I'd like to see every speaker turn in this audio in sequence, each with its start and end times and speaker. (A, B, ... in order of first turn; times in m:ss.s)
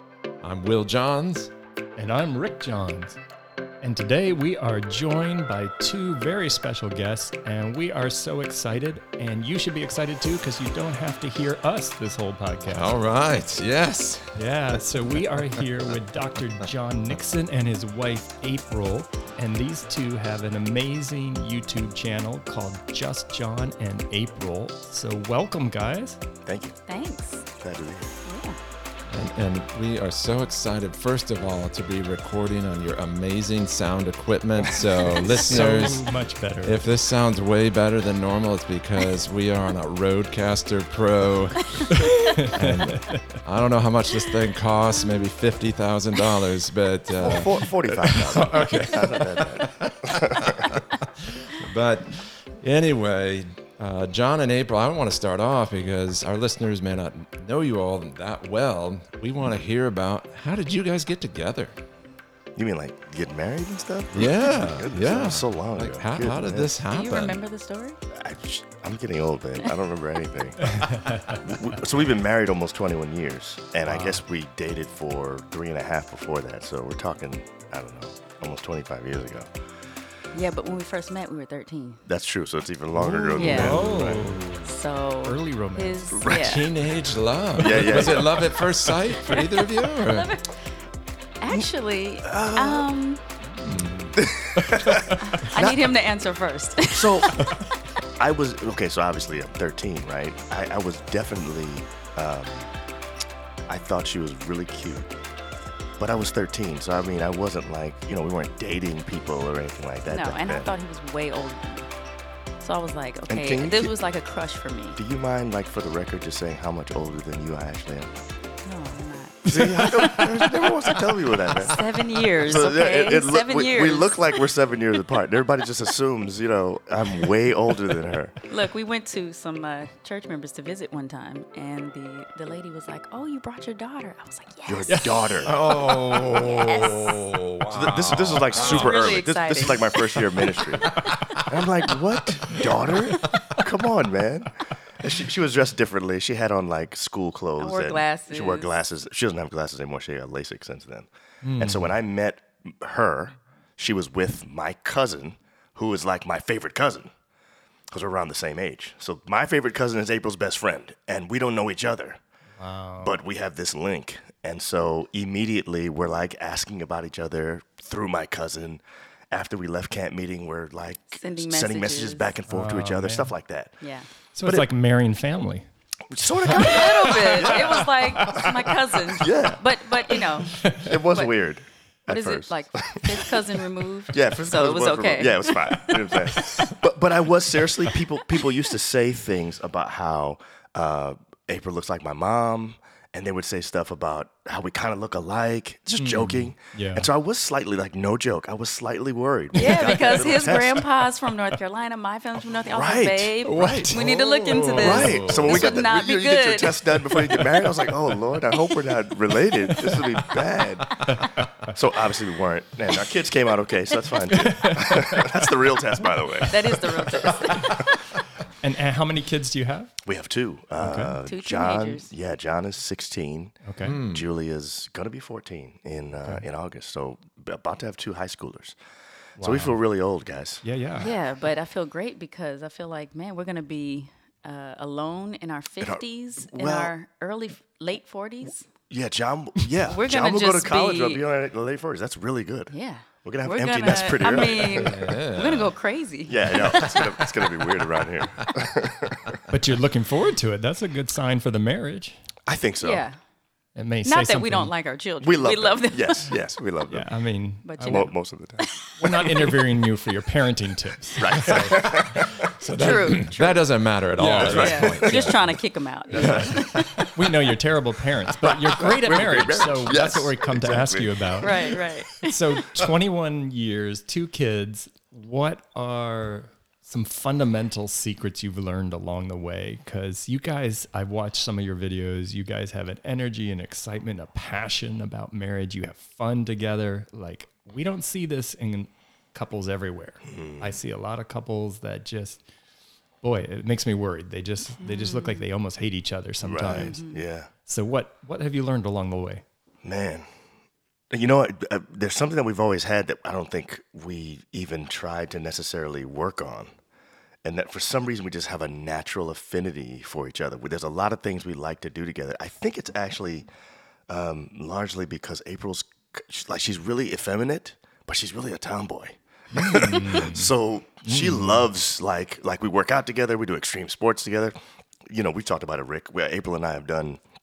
0:00.4-0:01.5 A
0:02.0-0:03.2 B
0:03.8-0:13.0 B
0:12.7-0:15.6 A
0:14.4-0:26.2 B
0:26.4-0:26.8 C
0:26.9-0:27.4 D
0:27.6-0:28.2 C
0:28.2-0:28.6 D
0:29.1-1:01.7 A
0:35.0-0:36.8 B
0:41.9-0:42.4 D
0:41.9-0:43.4 B
0:47.2-0:50.7 C
0:48.1-0:49.0 B
1:02.5-1:06.7 C
1:04.1-1:07.4 A
1:06.9-1:08.0 D
1:08.1-1:19.5 C
1:10.6-1:11.4 B
1:13.9-1:14.2 B
1:20.3-1:22.0 D
1:22.1-1:24.4 C
1:22.9-1:24.7 B
1:23.3-1:23.8 D
1:23.4-1:24.7 A
1:24.6-1:26.7 D
1:25.2-1:26.2 B
1:26.1-1:26.6 C
1:26.2-1:30.3 A
1:27.6-1:28.5 C
1:27.6-1:28.3 B
1:29.2-1:30.6 D
1:31.4-1:33.2 D
1:32.2-1:32.9 C
1:33.5-1:35.4 B
1:33.6-1:34.2 A
1:34.2-1:36.0 C
1:35.2-1:37.6 D
1:36.9-1:37.5 C
1:38.2-1:42.7 C
1:43.7-1:45.1 C
1:46.0-1:50.7 C
1:50.1-1:51.9 D
1:52.6-1:55.0 D
1:53.3-1:54.0 C
1:55.0-1:58.1 C
1:58.6-2:00.7 D
1:59.4-2:08.4 C
2:01.5-2:04.4 D
2:08.5-2:15.1 D
2:14.7-2:15.6 C
2:14.9-2:16.5 B
2:15.4-2:19.0 A
2:16.1-2:17.2 D
2:17.7-2:37.1 C
2:18.5-2:20.0 D
2:20.8-2:21.5 A
2:22.5-2:23.6 B
2:27.6-2:28.7 D
2:31.4-2:32.0 B
2:37.9-2:42.2 C
2:42.6-2:43.2 B
2:43.0-2:53.8 C
2:51.1-2:52.3 D
2:52.5-2:53.3 B
2:53.8-2:54.1 D
2:54.4-2:55.7 B
2:54.4-2:54.7 C
2:56.1-2:57.9 C
2:56.4-2:58.8 B
2:56.5-3:01.3 D
2:59.1-2:59.7 C
3:00.1-3:01.0 B
3:00.7-3:03.3 C
3:02.1-3:05.5 D
3:04.1-3:20.9 C
3:05.6-3:06.8 B
3:16.0-3:17.1 B
3:19.6-3:26.9 D
3:22.7-3:23.3 C
3:23.4-3:25.5 B
3:23.6-3:25.7 A
3:24.7-3:38.0 C
3:31.1-3:31.7 B
3:34.3-3:35.5 B
3:36.2-3:37.6 B
3:36.5-3:38.0 D
3:38.6-3:39.9 B
3:40.0-3:48.8 C
3:40.8-3:41.2 B
3:41.2-3:42.1 D
3:43.7-3:44.0 B
3:43.8-3:44.3 A
3:49.4-3:49.8 B
3:49.4-3:50.6 C
3:50.6-3:51.2 B
3:51.0-3:58.7 D
3:55.8-3:56.9 C
3:58.9-4:02.7 C
3:59.9-4:01.2 D
4:02.7-4:07.3 D
4:03.2-4:05.0 C
4:04.6-4:05.7 A
4:06.3-4:09.4 C
4:09.5-4:12.2 B
4:12.5-4:13.0 C
4:12.8-4:13.2 D
4:13.8-4:14.7 B
4:14.0-4:16.4 D
4:15.2-4:17.1 C
4:16.9-4:18.1 B
4:17.6-4:19.2 D
4:17.8-4:18.6 C
4:19.0-4:23.2 B
4:21.2-4:22.4 C
4:22.7-4:25.6 A
4:22.7-4:23.6 D
4:24.2-4:25.1 B
4:24.4-4:25.3 C
4:24.5-4:27.0 D
4:26.1-4:27.1 C
4:26.2-4:52.4 B
4:28.4-4:31.9 C
4:31.4-4:32.4 D
4:50.2-4:50.8 C
4:53.2-4:57.0 B
4:54.8-4:55.4 D
4:56.4-4:57.5 C
4:56.7-4:57.2 D
4:57.6-4:59.4 B
4:59.8-5:00.3 C
5:01.1-5:06.7 C
5:07.4-5:13.5 C
5:14.1-5:24.5 C
5:19.5-5:20.5 B
5:21.0-5:21.6 B
5:25.1-5:27.2 C